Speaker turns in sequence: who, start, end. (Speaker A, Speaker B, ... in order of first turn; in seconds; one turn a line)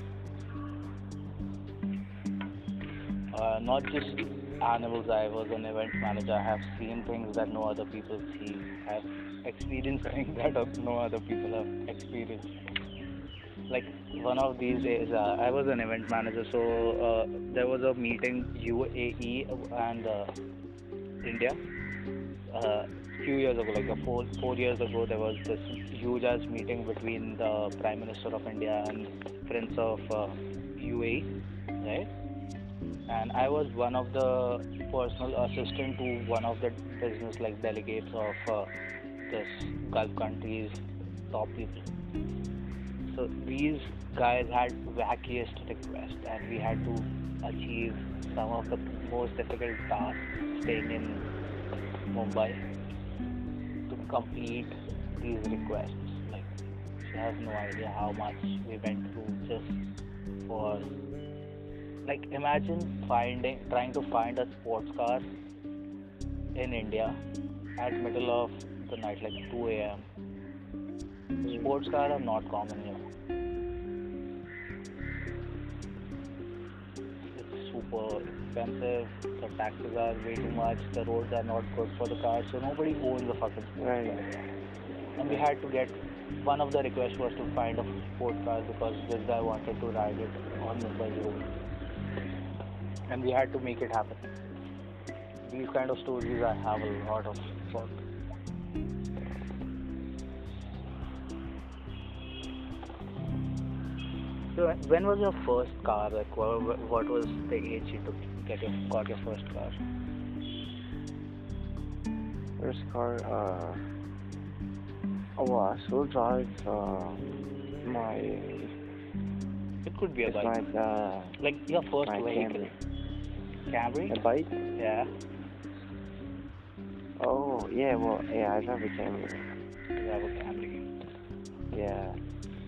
Speaker A: 3.3-12.5
Speaker A: 13.7-20.4
Speaker A: 21.2-21.6
Speaker A: 22.5-31.3
Speaker A: 31.8-32.1
Speaker A: 33.1-38.7
Speaker A: 39.2-41.9
Speaker A: 43.1-51.3
Speaker A: 52.1-52.6
Speaker A: 53.9-56.5
Speaker A: 57.0-59.8
Speaker A: 60.5-60.9
Speaker A: 62.0-65.3
Speaker A: 66.5-67.2
Speaker A: 67.8-70.1
Speaker B: 71.4-71.7
Speaker A: 71.5-73.0
Speaker A: 77.3-84.4
Speaker B: 83.8-84.3
Speaker A: 85.2-91.4
Speaker A: 93.1-94.2
Speaker A: 95.5-98.0
Speaker A: 104.5-109.8
Speaker B: 112.6-113.9
Speaker B: 115.4-118.8
Speaker A: 119.8-120.6
Speaker B: 120.2-121.4
Speaker A: 121.4-122.7
Speaker B: 122.0-122.7
Speaker A: 123.7-124.2
Speaker B: 124.1-124.5
Speaker A: 124.8-125.1
Speaker B: 127.2-129.6
Speaker A: 130.0-130.8
Speaker B: 131.7-132.2